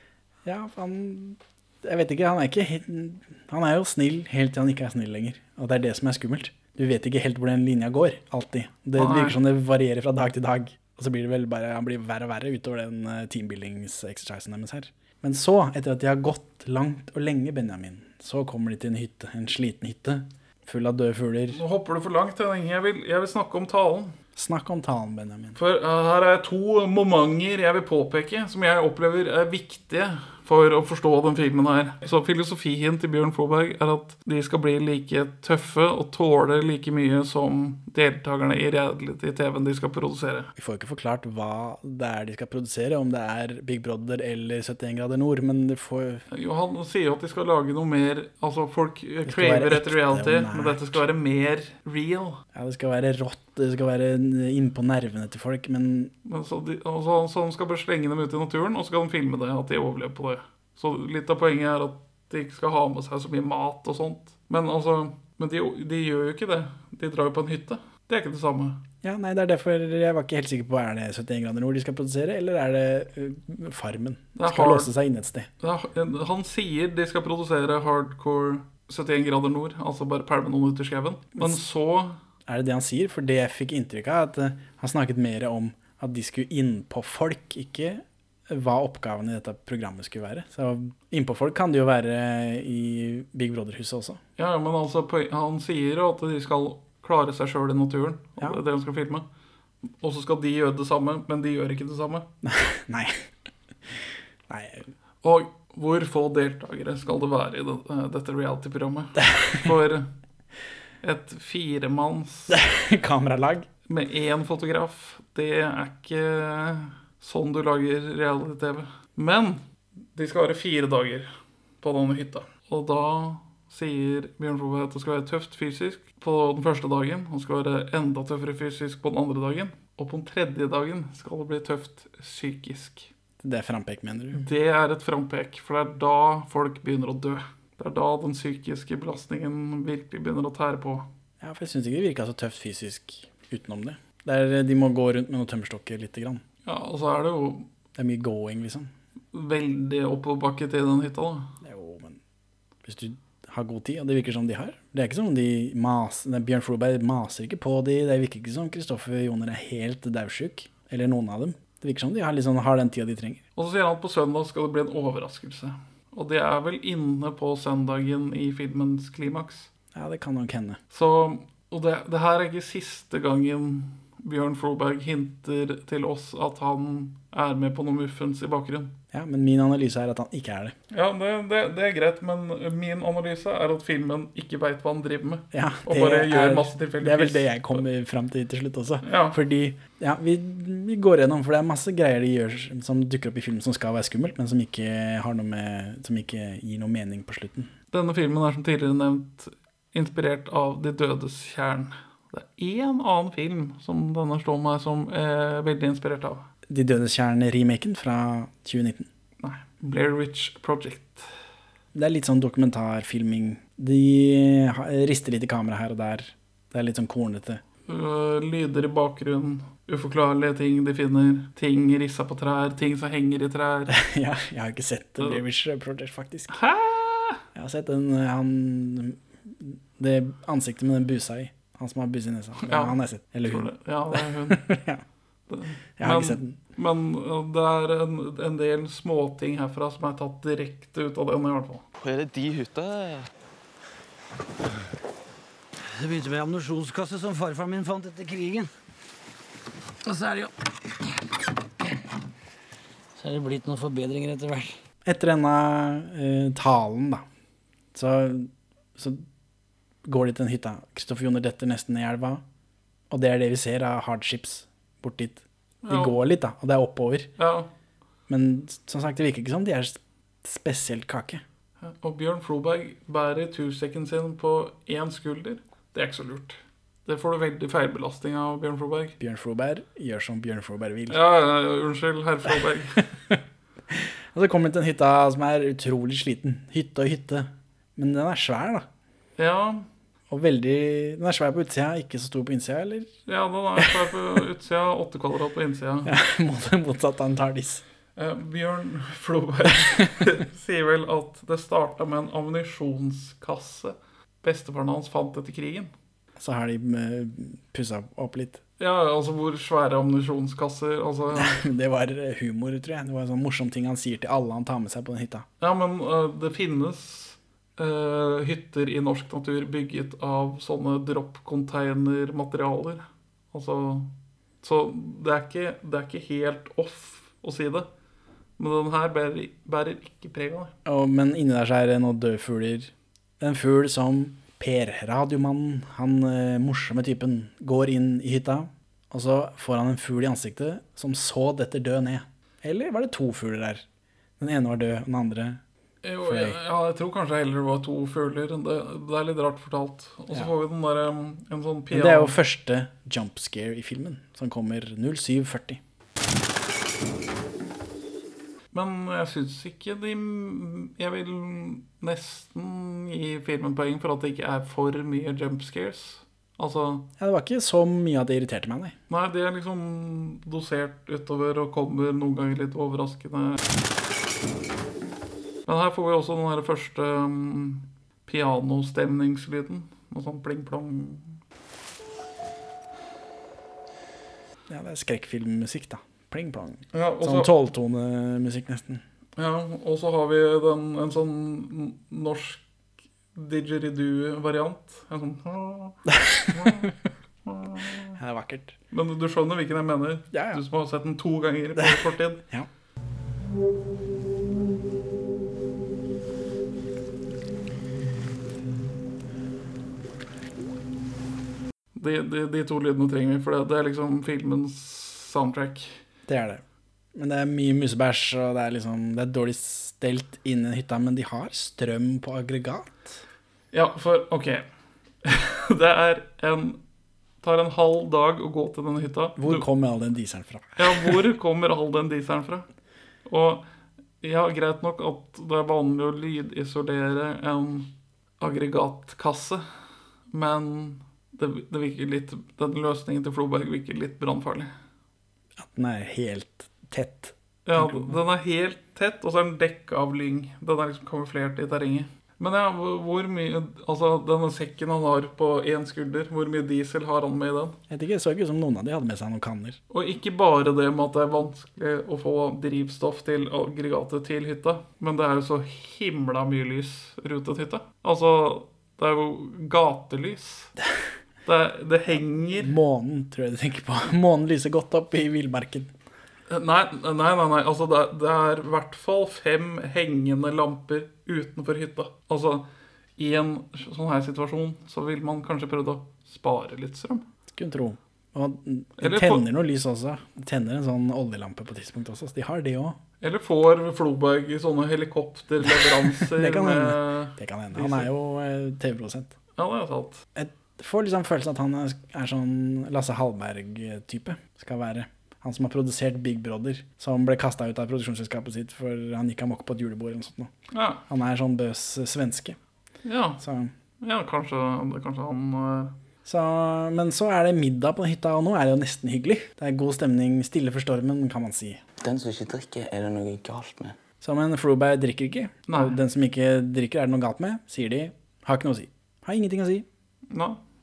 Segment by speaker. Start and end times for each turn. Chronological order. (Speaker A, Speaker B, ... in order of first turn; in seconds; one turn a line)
Speaker A: 0.4-21.6
Speaker B: 8.9-9.4
Speaker B: 21.5-24.1
Speaker A: 24.3-25.6
Speaker B: 25.6-40.5
Speaker A: 40.5-46.2
Speaker B: 46.3-52.4
Speaker A: 49.2-51.0
Speaker A: 52.5-56.1
Speaker B: 56.2-68.8
Speaker A: 69.0-75.5
Speaker B: 74.3-74.9
Speaker B: 75.6-82.2
Speaker A: 82.5-94.2
Speaker B: 94.4-99.3
Speaker B: 100.0-102.3
Speaker A: 102.4-103.3
Speaker A: 104.5-104.9
Speaker B: 105.2-110.1
Speaker A: 109.2-109.6
Speaker B: 111.0-112.6
Speaker A: 112.5-113.7
Speaker B: 113.9-133.1
Speaker A: 133.4-134.4
Speaker B: 134.3-141.1
Speaker A: 141.4-146.4
Speaker B: 146.6-147.7
Speaker A: 147.9-148.9
Speaker B: 149.3-151.5
Speaker A: 151.6-152.2
Speaker A: 152.8-163.4
Speaker B: 163.6-169.7
Speaker A: 169.9-170.8
Speaker B: 170.9-179.0
Speaker A: 179.1-180.8
Speaker B: 180.9-187.8
Speaker A: 185.5-197.7
Speaker B: 189.0-189.4
Speaker B: 197.9-206.5
Speaker A: 206.7-209.1
Speaker B: 209.4-211.3
Speaker A: 211.9-217.6
Speaker B: 217.8-223.9
Speaker A: 223.9-226.6
Speaker B: 226.5-227.4
Speaker A: 227.5-235.0
Speaker B: 232.6-234.8
Speaker B: 235.5-241.8
Speaker A: 236.0-236.6
Speaker C: 242.0-243.3
Speaker D: 245.9-248.7
Speaker D: 250.0-250.5
Speaker D: 253.2-254.8
Speaker A: 255.1-257.2
Speaker A: 257.9-259.2
Speaker A: 260.0-262.4
Speaker A: 263.1-267.3
Speaker B: 265.8-266.1
Speaker B: 267.4-267.7
Speaker A: 268.3-271.4
Speaker B: 271.8-279.2
Speaker A: 279.2-281.2
Speaker B: 281.1-283.0
Speaker A: 283.9-288.9
Speaker B: 289.4-289.9
Speaker A: 290.3-293.1
Speaker B: 293.2-296.1
Speaker A: 296.0-297.8
Speaker B: 298.1-305.9
Speaker A: 306.4-308.6
Speaker B: 308.8-311.6
Speaker A: 311.3-315.4
Speaker B: 315.6-327.9
Speaker B: 328.6-330.7
Speaker A: 330.8-343.8
Speaker A: 344.4-345.6
Speaker B: 346.0-352.3
Speaker A: 346.2-346.6
Speaker A: 351.9-355.8
Speaker B: 358.7-367.1
Speaker A: 367.2-368.9
Speaker B: 369.1-373.6
Speaker B: 375.6-381.4
Speaker A: 384.7-389.0
Speaker B: 386.9-387.5
Speaker B: 389.4-392.6
Speaker B: 393.3-396.9
Speaker A: 396.1-396.9
Speaker B: 397.4-398.2
Speaker A: 398.1-398.7
Speaker B: 398.9-402.4
Speaker A: 400.3-400.6
Speaker A: 401.8-402.7
Speaker B: 411.9-416.0
Speaker A: 416.3-416.6
Speaker A: 417.1-423.2
Speaker B: 423.7-424.7
Speaker B: 425.2-426.8
Speaker B: 427.4-429.6
Speaker A: 429.4-431.2
Speaker B: 430.8-432.6
Speaker B: 433.2-433.6
Speaker B: 434.2-439.6
Speaker B: 440.3-444.7
Speaker A: 445.6-448.2
Speaker B: 447.6-457.8
Speaker A: 457.9-459.8
Speaker B: 459.9-470.7
Speaker B: 471.4-472.7
Speaker A: 472.6-475.9
Speaker B: 476.5-487.2
Speaker A: 487.5-493.0
Speaker B: 489.0-489.4
Speaker B: 493.2-498.1
Speaker A: 495.7-499.3
Speaker B: 499.5-500.2
Speaker A: 500.4-510.5
Speaker B: 510.7-511.0
Speaker A: 511.1-512.6
Speaker B: 513.0-513.4
Speaker A: 513.4-513.7
Speaker B: 514.0-516.0
Speaker A: 516.2-521.8
Speaker C: 522.0-524.0
Speaker A: 524.2-529.9
Speaker B: 525.7-526.0
Speaker B: 530.3-530.6